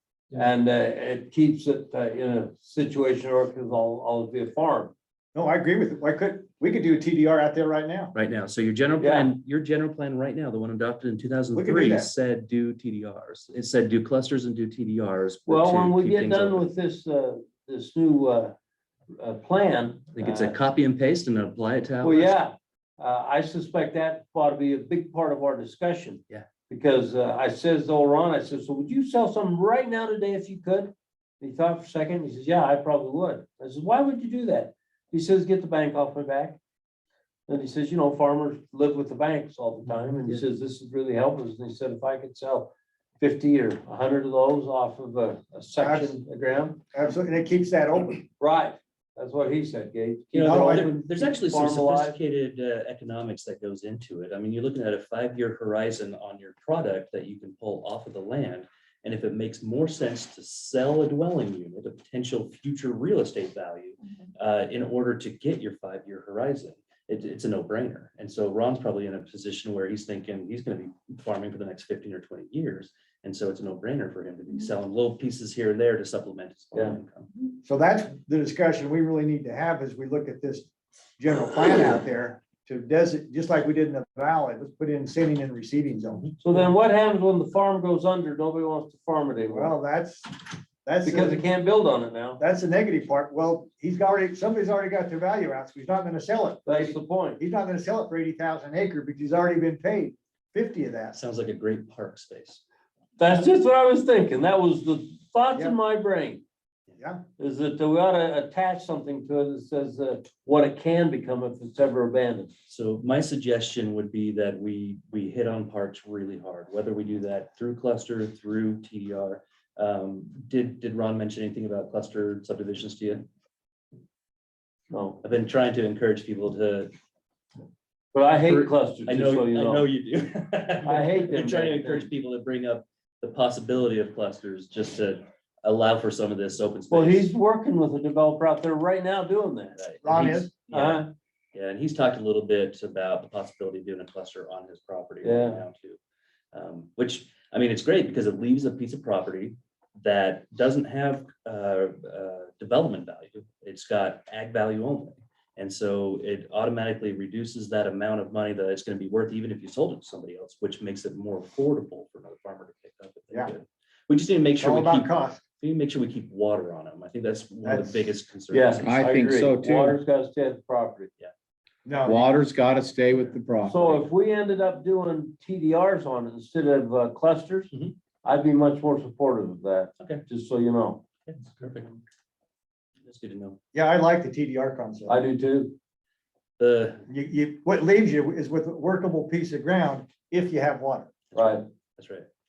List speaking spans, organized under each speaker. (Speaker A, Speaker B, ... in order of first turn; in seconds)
Speaker A: 0.3-4.9, 9.0-9.3, 15.5-18.5, 19.1-20.6, 22.0-36.6, 37.5-46.8, 48.4-52.2, 76.7-77.0, 86.4-89.7, 91.0-92.4, 96.7-97.4, 103.2-106.4, 107.4-112.5, 124.9-125.2, 128.1-129.9, 130.8-132.1, 136.9-139.8, 140.7-141.1, 145.2-145.6, 168.5-171.1, 173.7-177.7, 178.2-181.0, 185.1-185.7, 191.4-191.7
Speaker B: 5.3-8.1, 11.5-12.1, 45.8-46.2, 46.9-48.3, 50.4-50.9, 77.6-86.3, 89.5-90.3, 90.8-91.4, 92.4-101.2, 140.0-140.5, 164.6-165.4, 167.6-168.1, 171.8-172.3, 183.7-185.2, 187.1-191.1
Speaker C: 8.1-16.7, 20.1-22.3, 50.6-77.3, 101.1-102.6, 112.7-123.3, 125.2-126.9, 128.3-137.3, 139.8-146.0, 146.5-169.0, 181.3-182.0, 183.0-183.6, 186.6-187.0, 191.3-192.3
Speaker D: 168.8-170.0, 172.0-174.0